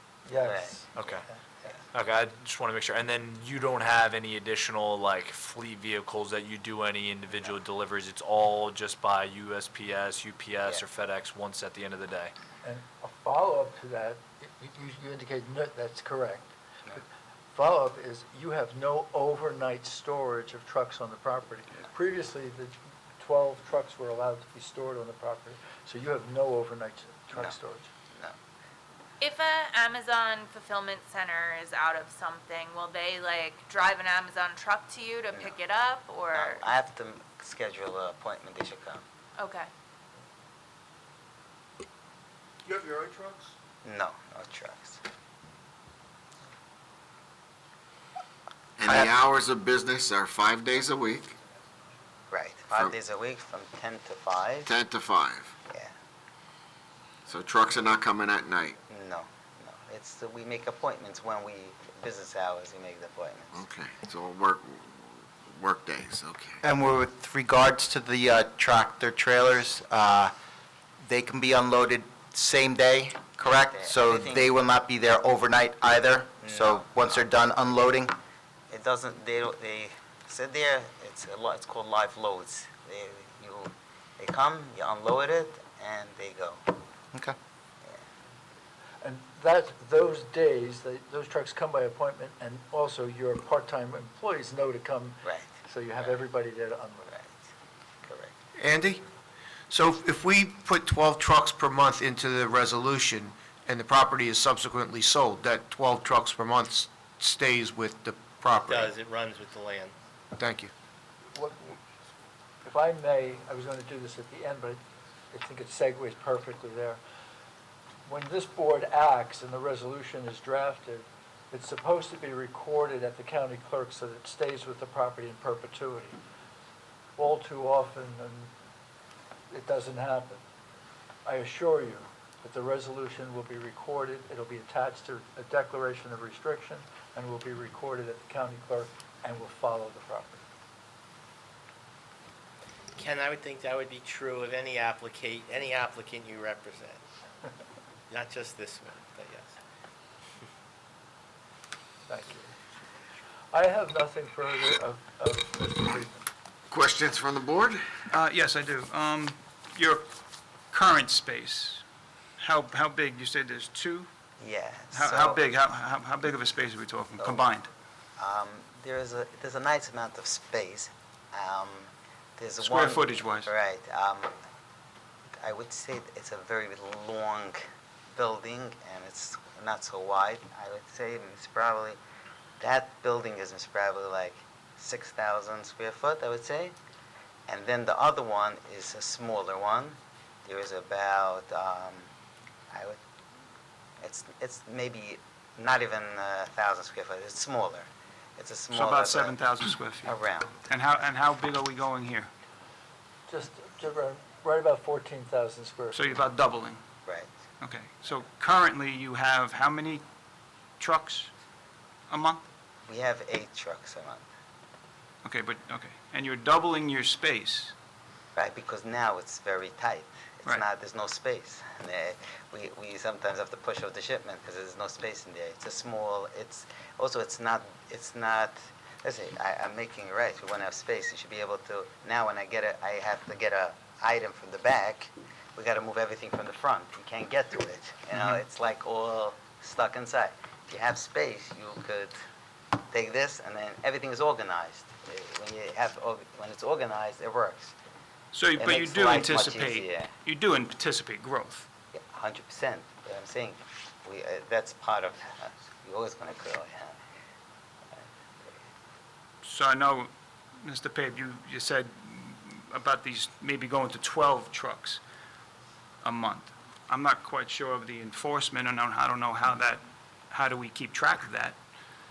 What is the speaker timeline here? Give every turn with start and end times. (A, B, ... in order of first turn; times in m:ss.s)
0:00.2-0:01.4 A
0:00.4-0:01.0 B
0:00.9-0:01.2 C
0:01.9-0:12.3 C
0:12.6-0:17.0 A
0:17.5-0:27.9 A
0:29.2-0:36.6 D
0:36.3-0:39.0 B
0:39.4-0:39.7 D
0:42.7-0:43.5 E
0:43.8-0:45.0 B
0:48.8-0:51.4 F
0:52.3-0:54.7 B
0:54.6-0:55.5 F
0:57.3-0:58.8 F
0:58.9-1:03.6 B
1:03.5-1:06.6 F
1:06.6-1:10.3 G
1:11.0-1:18.1 G
1:13.4-1:14.6 B
1:16.4-1:17.4 B
1:18.7-1:26.6 B
1:29.0-1:37.2 A
1:35.2-1:36.1 B
1:37.1-1:37.4 B
1:38.0-1:38.3 B
1:38.6-1:39.0 E
1:39.7-1:48.9 E
1:48.6-1:49.9 H
1:50.4-1:50.7 E
1:51.3-1:51.8 A
1:52.6-1:54.8 A
1:55.3-1:57.0 A
1:58.0-2:06.2 A
2:07.2-2:08.5 A
2:09.5-2:10.4 A
2:11.2-2:20.4 A
2:23.0-2:27.0 H
2:28.1-2:29.6 H
2:32.1-2:32.5 A
2:33.5-2:36.3 A
2:36.7-2:37.9 F
2:38.1-2:40.0 I
2:40.7-2:41.8 I
2:42.4-2:44.1 I
2:44.4-2:45.4 B
2:44.9-2:47.7 I
2:47.2-2:47.5 B
2:48.2-2:54.3 B
2:52.6-2:53.5 I
2:55.4-2:57.6 B
2:58.1-3:02.0 B
3:02.6-3:06.8 B
3:07.5-3:12.1 B
3:12.7-3:13.0 B
3:14.0-3:19.4 B
3:18.7-3:20.2 I
3:20.0-3:20.6 B
3:20.7-3:22.3 I
3:23.3-3:26.1 A
3:25.9-3:26.8 I
3:27.0-3:27.3 B
3:27.6-3:30.0 I
3:30.8-3:31.3 I
3:32.1-3:32.4 I
3:32.9-3:34.2 B
3:35.2-3:37.7 I
3:38.4-4:02.1 B
4:02.9-4:07.7 B
4:08.3-4:11.7 I
4:08.6-4:10.1 B
4:11.9-4:17.0 B
4:18.0-4:18.6 B
4:19.4-4:20.1 I
4:20.6-4:25.0 I
4:26.0-4:31.6 I